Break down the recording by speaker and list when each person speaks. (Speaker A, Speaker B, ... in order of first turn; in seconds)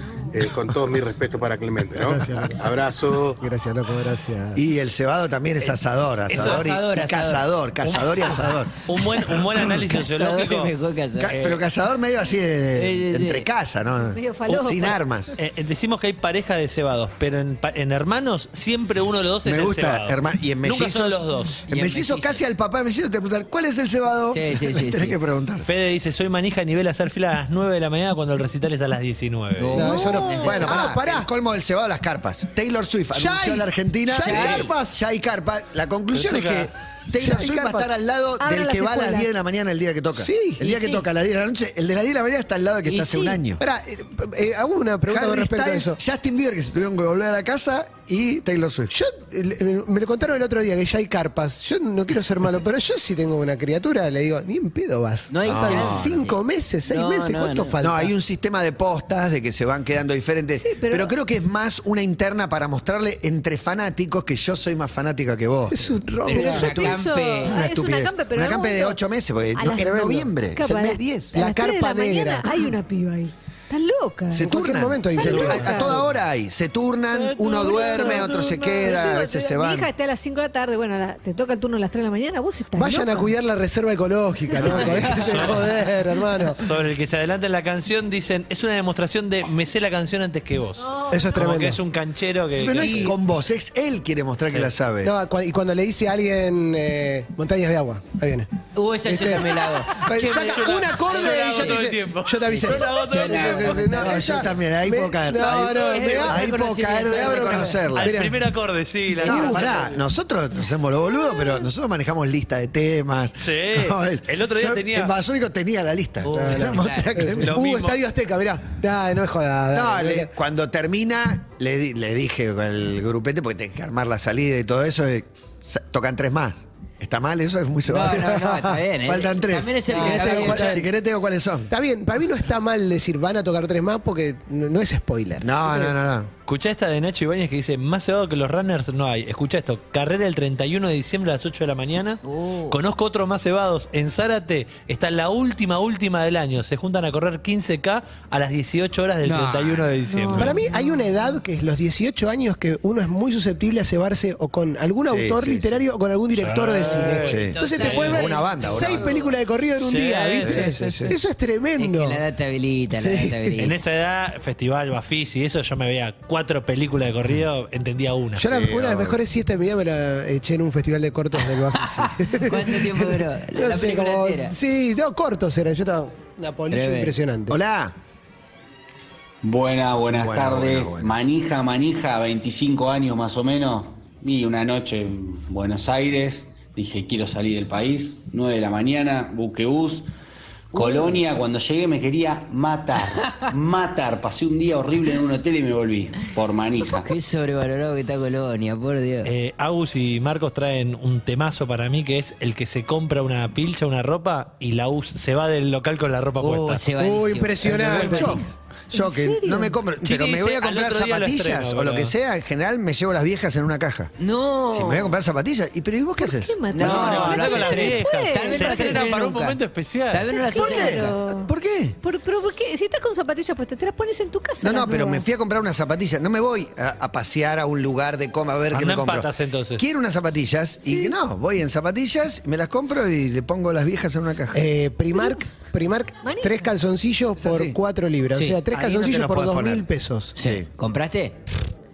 Speaker A: 0.3-3.4
Speaker B: 1.9-2.7, 3.4-4.6, 29.7-31.3, 33.1-35.0, 37.1-37.9, 40.1-40.6, 43.6-46.0, 48.9-58.1, 65.7-66.9, 69.7-70.3, 71.3-72.7, 74.3-76.1, 82.8-86.6, 91.1-91.8, 92.7-93.2, 95.0-98.5, 99.1-106.5, 107.1-108.4, 109.2-109.9, 116.3-120.3, 129.9-130.9, 131.7-136.0, 150.3-162.2, 162.9-163.7, 168.4-177.6, 207.0-208.4, 234.5-240.3
Speaker C: 4.5-9.3, 11.2-15.3, 19.4-25.7, 30.4-43.6, 45.1-48.9, 55.5-56.1, 57.8-65.9, 67.5-71.4, 74.3-79.9, 84.8-85.1, 92.5-95.1, 104.0-108.2, 109.2-117.5, 119.7-131.7, 135.4-136.3, 155.1-155.8, 157.2-159.1, 160.4-161.2, 168.4-169.2, 177.5-178.0, 180.1-181.2, 207.9-214.1, 214.7-217.4, 220.6-222.0, 224.6-234.6, 237.4-237.8, 238.7-239.8, 240.4-240.7
Speaker D: 6.3-6.6, 8.8-10.7, 11.3-11.6, 15.4-21.6, 25.6-30.0, 36.1-36.7, 77.1-79.0, 85.1-85.6, 86.6-93.1, 100.0-104.1, 105.4-106.3, 108.0-110.0, 113.4-115.1, 117.4-118.0, 136.5-142.2, 142.7-150.6, 156.3-158.2, 159.8-161.0, 163.6-168.4, 199.2-206.8, 207.8-208.3, 210.0-212.1, 216.8-220.3, 228.7-229.8
Speaker E: 6.3-7.5, 9.9-11.3, 12.8-13.5, 21.7-22.4, 24.3-25.2, 29.6-30.8, 34.2-34.7, 40.6-41.1, 42.9-43.4, 55.3-57.8, 66.2-67.6, 98.8-99.9, 102.8-104.1, 105.4-107.8, 116.2-117.3, 127.9-130.9, 142.2-142.8, 149.2-149.9, 157.5-159.3, 161.8-163.8, 171.7-174.6, 176.7-177.1, 190.7-191.2, 196.9-199.3, 206.4-208.2, 214.2-215.1, 216.7-219.6, 220.1-221.2, 238.3-238.6, 240.3-241.4
Speaker F: 14.1-15.0, 30.1-30.4, 38.4-39.4, 60.6-61.2, 66.3-69.0, 69.5-74.5, 75.1-76.0, 77.4-83.3, 90.8-91.4, 150.1-151.4, 208.9-209.8, 216.2-219.1, 220.3-225.3, 230.8-231.2, 236.2-236.7
Speaker G: 179.4-190.1, 190.7-197.1